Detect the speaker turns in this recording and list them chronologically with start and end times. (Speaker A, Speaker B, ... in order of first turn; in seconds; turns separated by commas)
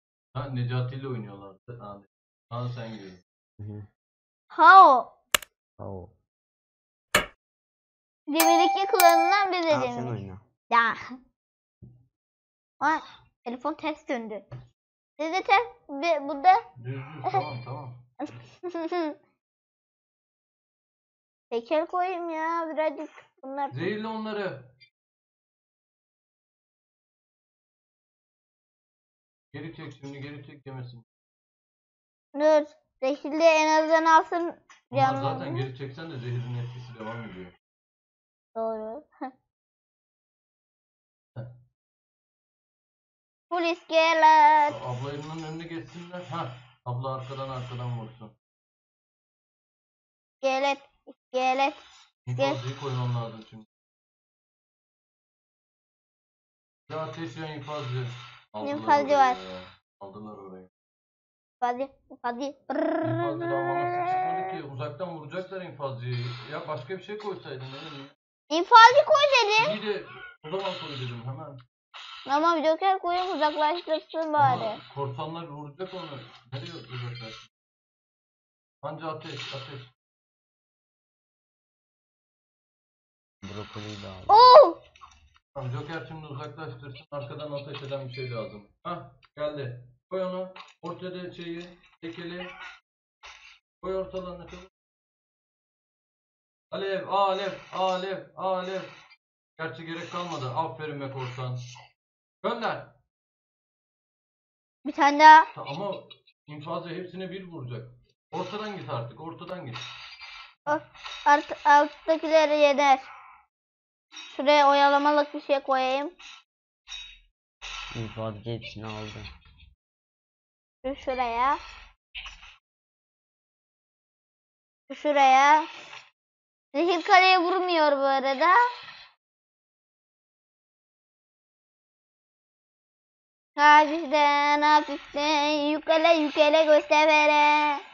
Speaker A: 0.3-3.2, Speaker B: 3.6-3.9, Speaker C: 4.5-5.1, Speaker B: 5.8-6.1, Speaker C: 8.3-10.2, Speaker B: 9.7-10.4, Speaker C: 10.7-11.0, Speaker C: 12.8-14.4, Speaker C: 15.2-16.6, Speaker A: 16.8-18.0, Speaker C: 18.2-19.1, Speaker C: 21.5-23.9, Speaker A: 23.7-24.7, Speaker A: 29.5-31.1, Speaker C: 32.3-35.7, Speaker A: 34.9-37.5, Speaker C: 38.5-39.3, Speaker C: 43.5-44.8, Speaker A: 44.7-48.3, Speaker C: 50.4-51.8, Speaker A: 52.2-53.7, Speaker C: 52.3-52.6, Speaker A: 56.9-60.7, Speaker C: 58.6-59.4, Speaker C: 61.6-63.4, Speaker A: 63.0-68.1, Speaker C: 68.5-69.8, Speaker A: 69.6-71.6, Speaker C: 72.2-74.8, Speaker A: 74.4-77.5, Speaker A: 78.8-79.9, Speaker B: 83.4-84.5, Speaker C: 84.3-84.8, Speaker A: 85.5-92.5, Speaker A: 93.8-94.7, Speaker A: 96.7-98.9, Speaker A: 99.6-101.6, Speaker A: 102.4-102.9, Speaker C: 104.8-105.5, Speaker A: 105.5-109.8, Speaker C: 110.7-113.1, Speaker C: 114.3-116.1, Speaker B: 117.9-119.3, Speaker C: 120.8-121.6, Speaker C: 124.9-125.7, Speaker C: 126.7-128.6, Speaker C: 133.6-137.8